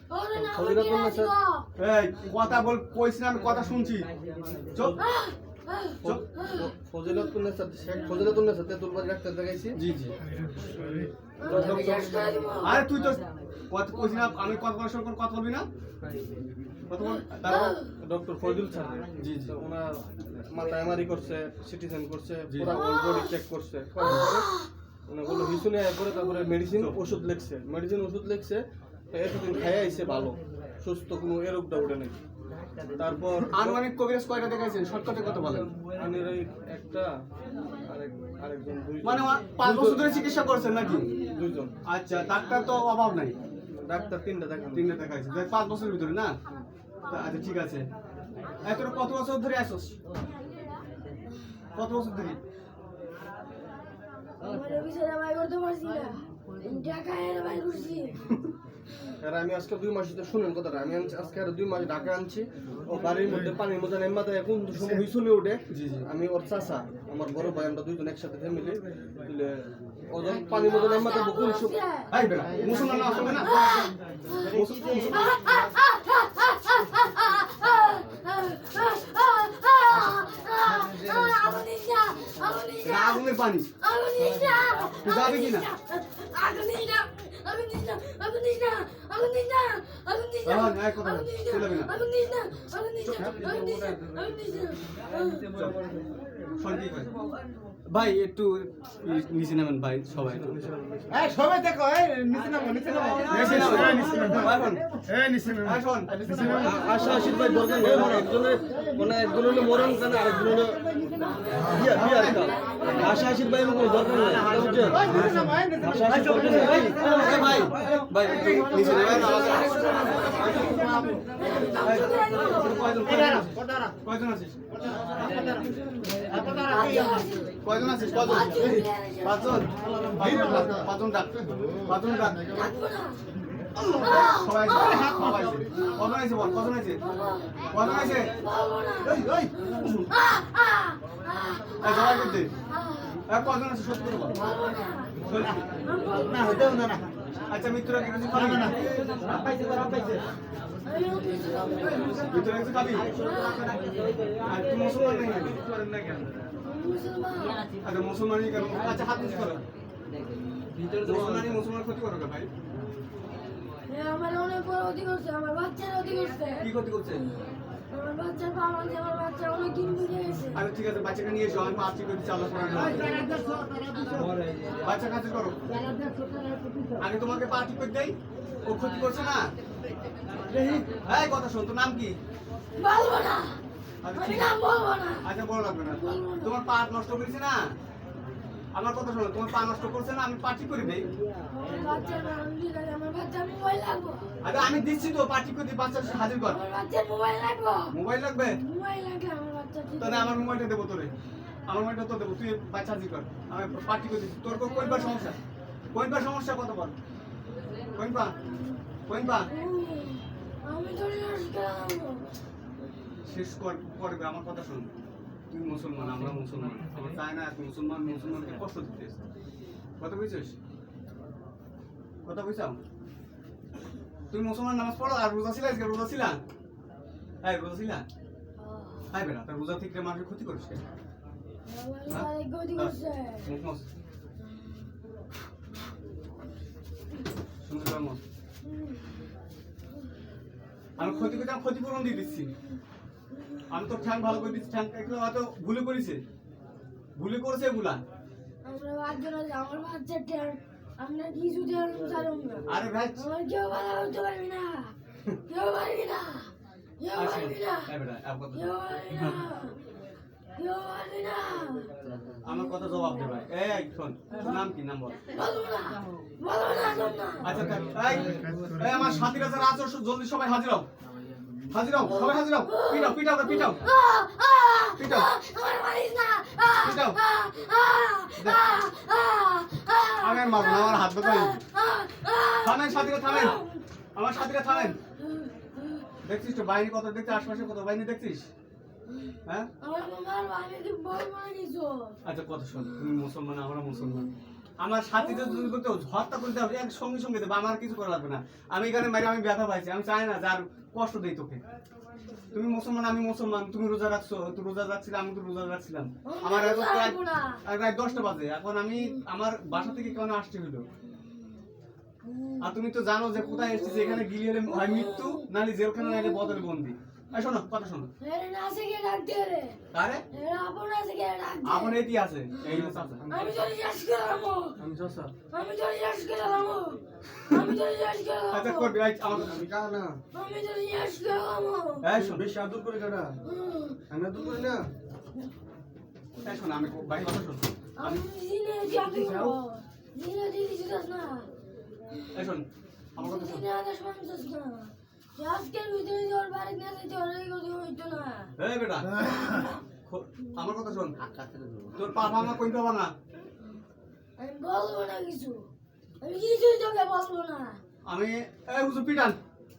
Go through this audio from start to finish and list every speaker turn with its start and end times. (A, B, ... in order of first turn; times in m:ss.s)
0:00.1-0:01.6 A
0:00.3-0:01.3 B
0:01.8-0:04.1 C
0:04.7-0:05.0 C
0:05.0-0:07.2 A
0:06.0-0:09.8 B
0:09.8-0:10.2 C
0:11.4-0:12.8 A
0:11.4-0:12.3 B
0:11.5-0:11.9 C
0:12.6-0:15.7 C
0:16.9-0:17.8 C
0:17.0-0:17.9 A
0:18.0-0:24.5 B
0:19.2-0:19.5 C
0:22.5-0:22.8 C
0:22.6-0:23.4 A
0:24.0-0:24.7 A
0:25.1-0:32.2 B
0:25.3-0:25.6 A
0:33.0-0:33.8 B
0:33.5-0:35.7 C
0:36.0-0:37.1 B
0:37.8-0:40.2 B
0:39.0-0:41.1 C
0:40.9-0:41.7 B
0:41.9-0:43.4 C
0:43.7-0:45.0 B
0:44.7-0:46.3 C
0:47.1-0:47.8 C
0:48.6-0:50.0 C
0:51.8-0:52.4 C
0:54.4-0:58.2 A
0:59.2-1:11.8 B
1:05.7-1:06.1 C
1:10.6-1:12.1 A
1:12.1-1:13.9 C
1:13.4-1:35.5 A
1:14.4-1:15.4 C
1:22.8-1:23.7 C
1:25.0-1:25.7 C
1:30.4-1:31.9 C
1:35.5-1:35.8 C
1:36.6-1:37.1 C
1:37.9-1:40.7 C
1:40.2-1:41.4 B
1:41.2-1:44.5 D
1:43.1-1:44.8 C
1:45.1-1:45.7 D
1:45.6-1:48.2 C
1:46.4-1:46.7 D
1:46.6-1:50.8 B
1:46.8-1:53.4 A
1:51.7-1:57.7 B
1:51.9-1:52.6 C
1:53.9-2:01.0 C
1:54.5-1:57.7 D
1:58.3-1:59.1 D
1:59.1-2:03.2 A
2:00.7-2:01.2 D
2:01.8-2:04.6 C
2:03.2-2:03.5 D
2:05.3-2:05.6 D
2:06.3-2:07.5 A
2:06.3-2:06.6 D
2:07.6-2:12.5 C
2:08.1-2:09.6 A
2:12.5-2:13.2 A
2:13.9-2:15.2 A
2:14.0-2:17.0 C
2:15.2-2:15.5 D
2:15.7-2:23.2 A
2:17.7-2:18.3 C
2:19.2-2:19.4 D
2:19.8-2:20.1 C
2:21.8-2:22.5 C
2:23.3-2:24.4 C
2:24.3-2:25.2 A
2:25.3-2:25.7 C
2:25.8-2:27.0 A
2:26.8-2:27.0 D
2:27.5-2:30.1 C
2:28.4-2:30.2 D
2:30.8-2:32.5 A
2:32.0-2:33.8 C
2:33.1-2:33.8 A
2:34.4-2:35.6 C
2:36.6-2:37.7 A
2:37.8-2:39.6 C
2:40.9-2:42.5 C
2:43.9-2:46.7 A
2:46.6-2:47.2 C
2:47.9-2:50.6 A
2:50.6-2:53.3 C
2:53.6-2:54.7 D
2:54.8-2:56.0 C
2:56.1-2:56.9 D
2:57.0-2:58.1 C
2:58.6-2:59.5 C
3:00.6-3:00.8 D
3:01.0-3:02.2 C
3:02.8-3:03.6 A
3:04.0-3:04.5 C
3:04.1-3:05.2 A
3:05.2-3:07.6 C
3:05.8-3:06.5 A
3:08.8-3:11.1 C
3:11.5-3:14.3 A
3:14.4-3:16.6 C
3:16.5-3:20.5 A
3:17.9-3:18.6 C
3:20.0-3:21.1 C
3:21.7-3:25.4 C
3:24.9-3:25.3 A
3:25.9-3:26.9 C
3:27.9-3:28.4 C
3:29.1-3:29.5 C
3:29.4-3:32.2 A
3:33.3-3:34.9 C
3:35.5-3:39.2 C
3:40.0-3:40.6 C
3:42.2-3:42.8 C
3:44.3-3:46.4 C
3:47.4-3:48.0 C
3:48.6-3:49.1 A
3:49.1-3:50.8 C
3:51.7-3:53.5 A
3:52.1-3:53.8 C
3:57.6-3:58.2 C
3:58.6-3:59.3 A
4:01.0-4:02.5 C
4:01.0-4:02.8 A
4:03.3-4:03.6 A
4:03.7-4:06.2 C
4:07.2-4:08.0 C
4:08.7-4:14.9 A
4:12.7-4:13.2 C
4:15.5-4:17.9 A
4:17.2-4:19.4 C
4:18.6-4:19.8 A
4:20.6-4:21.9 A
4:22.4-4:25.2 C
4:22.5-4:23.3 A
4:25.3-4:27.5 A
4:27.4-4:30.8 C
4:27.6-4:28.9 D
4:31.7-4:33.8 C
4:32.1-4:43.8 A
4:35.0-4:35.3 C
4:36.8-4:37.2 C
4:40.2-4:41.6 C
4:42.6-4:43.6 C
4:44.2-4:45.0 C
4:44.6-4:46.1 A
4:46.2-4:48.5 C
4:49.1-4:52.1 A
4:52.2-5:01.6 C
4:52.8-4:53.2 A
4:54.0-4:54.4 A
4:55.2-4:55.7 A
5:02.5-5:10.8 C
5:06.2-5:07.6 A
5:12.2-5:12.7 A
5:12.6-5:18.1 C
5:13.4-5:15.4 A
5:16.0-5:16.6 A
5:18.2-5:19.8 A
5:19.9-5:20.2 C
5:20.3-5:22.0 A
5:21.6-5:23.2 C
5:22.6-5:23.6 B
5:23.3-5:24.8 A
5:24.8-5:25.3 B
5:25.5-5:29.0 A
5:28.5-5:29.5 C
5:29.3-5:30.2 B
5:30.3-5:32.0 A
5:32.0-5:32.4 C
5:32.2-5:33.4 B
5:33.4-5:34.0 A
5:34.1-5:34.9 B
5:36.4-5:38.2 C
5:38.0-5:41.5 A
5:39.0-5:39.6 C
5:42.3-5:43.6 C
5:43.2-5:48.5 A
5:48.6-5:49.2 C
5:49.3-5:49.8 A
5:50.1-5:51.2 C
5:51.9-5:53.1 C
5:54.4-5:55.6 A
5:56.2-5:57.8 A
5:58.1-5:59.4 C